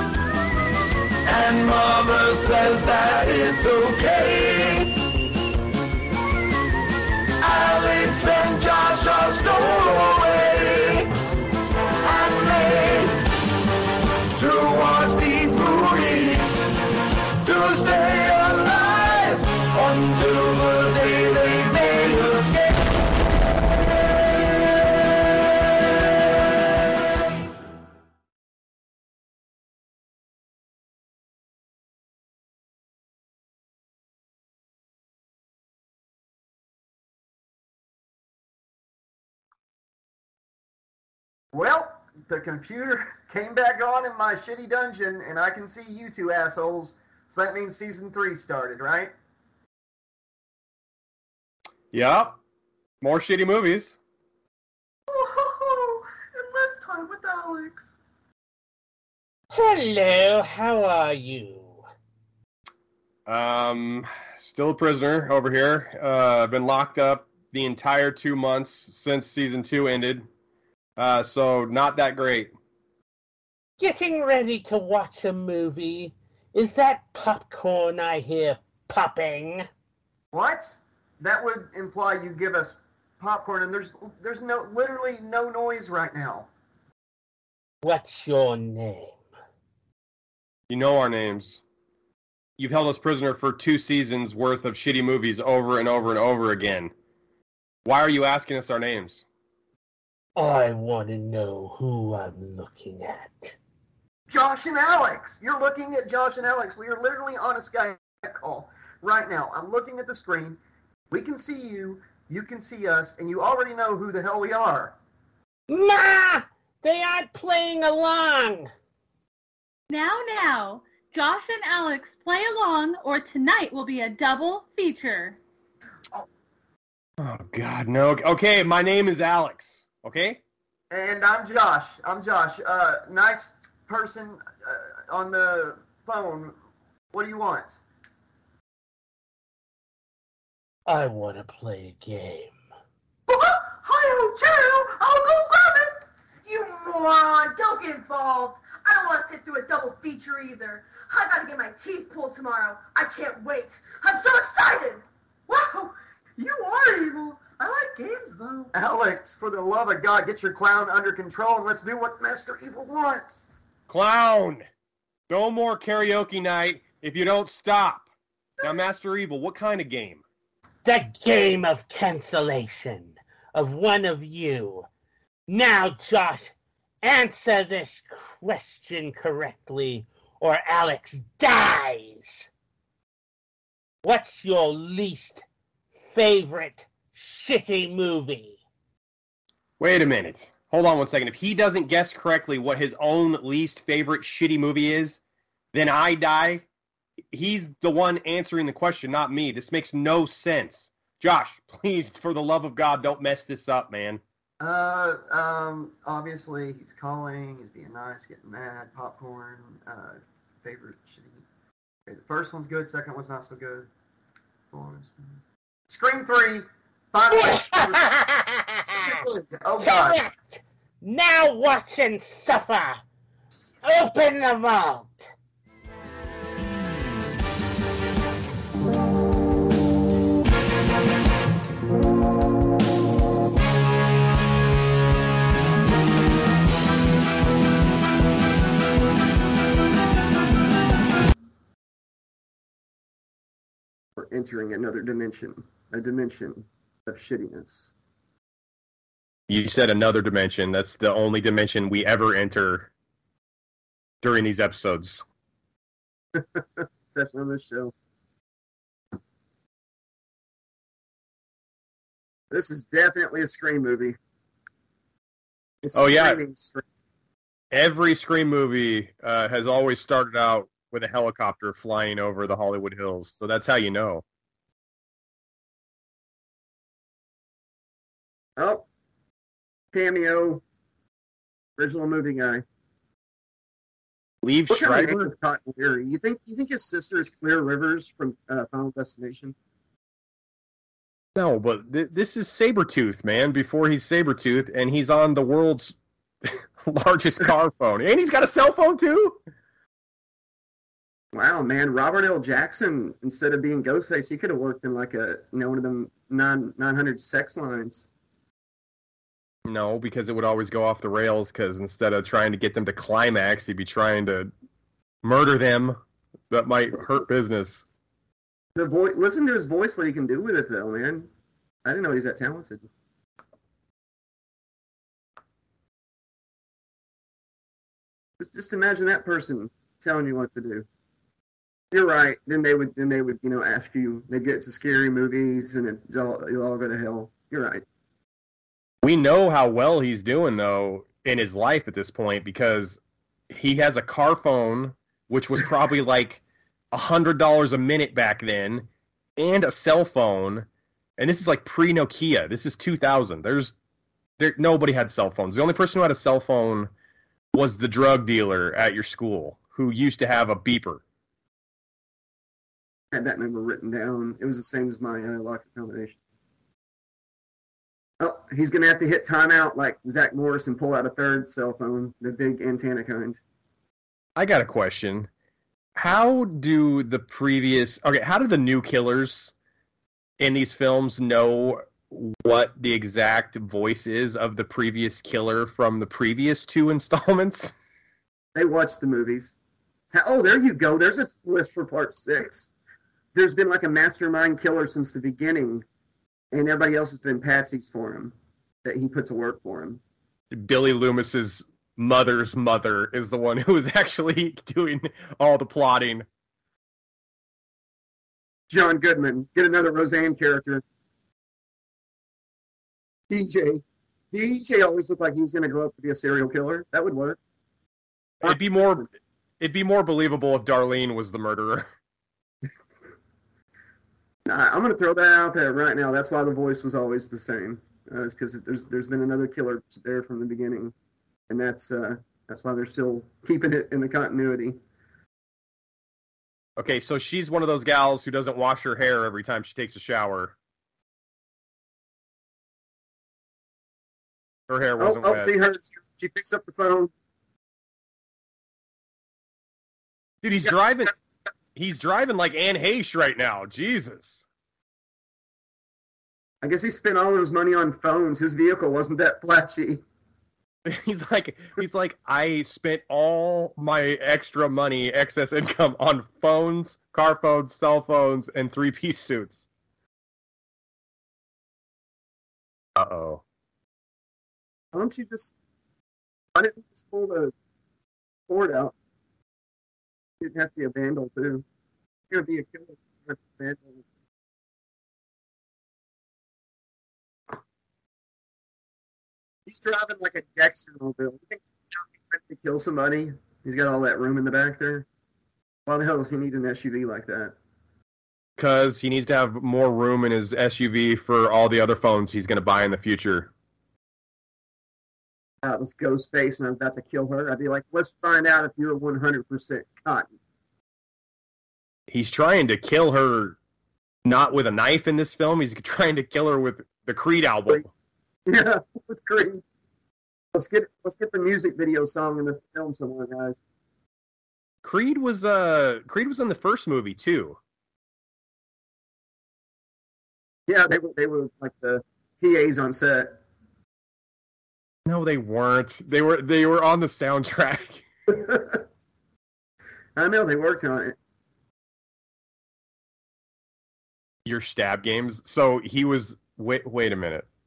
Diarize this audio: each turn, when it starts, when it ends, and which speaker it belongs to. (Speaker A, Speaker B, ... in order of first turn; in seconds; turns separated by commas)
Speaker A: 1.2-5.0, Speaker A: 7.4-11.1, Speaker A: 12.0-13.2, Speaker A: 14.3-16.6, Speaker A: 17.4-23.0, Speaker A: 24.4-24.8, Speaker B: 41.5-49.1, Speaker C: 51.9-52.4, Speaker C: 53.0-54.0, Speaker D: 55.1-57.9, Speaker E: 59.5-61.8, Speaker C: 63.2-70.3, Speaker C: 71.0-72.5, Speaker E: 73.8-79.7, Speaker B: 80.3-86.5, Speaker E: 87.8-89.2, Speaker C: 90.7-91.6, Speaker C: 92.6-96.9, Speaker C: 97.8-99.2, Speaker E: 100.3-103.5, Speaker B: 104.3-114.9, Speaker E: 115.7-118.7, Speaker F: 119.9-125.4, Speaker C: 127.2-130.4, Speaker B: 130.9-136.5, Speaker B: 137.1-137.8, Speaker E: 140.8-142.5, Speaker D: 143.3-158.7, Speaker B: 158.7-163.5, Speaker C: 163.9-164.6, Speaker C: 165.3-168.1, Speaker C: 168.6-170.2, Speaker E: 170.8-174.9, Speaker E: 175.5-182.5, Speaker E: 184.0-185.4, Speaker E: 186.0-188.6, Speaker C: 189.8-195.2, Speaker C: 195.7-196.6, Speaker C: 197.3-204.2, Speaker B: 204.6-211.4, Speaker B: 212.1-213.9, Speaker B: 214.7-215.2, Speaker B: 215.9-218.1, Speaker E: 217.4-218.9, Speaker B: 218.8-220.2, Speaker E: 219.8-223.0, Speaker E: 223.8-225.3, Speaker B: 244.2-247.9, Speaker C: 249.5-252.9, Speaker C: 254.2-255.2, Speaker B: 256.3-257.9, Speaker B: 262.5-264.2, Speaker B: 265.8-266.8, Speaker C: 265.9-266.4, Speaker C: 267.7-274.2, Speaker B: 278.6-278.9, Speaker B: 279.9-280.6, Speaker B: 281.8-282.6, Speaker C: 284.4-285.3, Speaker B: 284.7-289.6, Speaker C: 291.3-299.4, Speaker B: 301.3-308.1, Speaker C: 309.6-314.5, Speaker C: 315.2-316.0, Speaker C: 316.5-317.8, Speaker B: 318.8-321.3, Speaker B: 321.8-322.9, Speaker B: 328.4-330.9, Speaker B: 331.9-337.8, Speaker C: 339.0-350.6, Speaker C: 351.2-353.7, Speaker C: 354.4-356.9, Speaker C: 357.5-361.0, Speaker B: 363.1-366.2, Speaker B: 368.2-373.4, Speaker C: 374.4-375.3, Speaker C: 375.9-379.5, Speaker C: 380.4-387.7, Speaker B: 388.5-389.5, Speaker B: 390.1-392.7, Speaker B: 393.3-395.8, Speaker B: 396.5-400.0, Speaker C: 400.5-406.2, Speaker B: 408.7-410.8, Speaker B: 413.3-417.4, Speaker C: 418.4-419.1, Speaker B: 418.4-419.1, Speaker C: 419.6-421.9, Speaker B: 424.4-430.9, Speaker B: 431.5-434.8, Speaker C: 436.8-440.5, Speaker C: 444.7-445.5, Speaker B: 445.0-447.1, Speaker C: 450.4-451.1, Speaker C: 451.7-454.4, Speaker B: 456.6-460.0, Speaker C: 460.9-469.7, Speaker C: 472.9-473.4, Speaker B: 474.9-475.5, Speaker B: 476.5-477.5, Speaker B: 478.5-478.9, Speaker B: 480.4-481.6, Speaker B: 482.3-484.0, Speaker B: 489.6-495.1, Speaker B: 495.9-497.5, Speaker C: 498.6-503.5, Speaker B: 505.6-510.3, Speaker C: 512.1-513.6, Speaker C: 514.2-517.9, Speaker B: 518.5-519.6, Speaker B: 520.5-523.6, Speaker C: 524.8-527.6, Speaker B: 530.7-533.4, Speaker C: 535.0-538.0, Speaker B: 538.3-538.8, Speaker B: 540.1-541.1, Speaker C: 544.4-547.5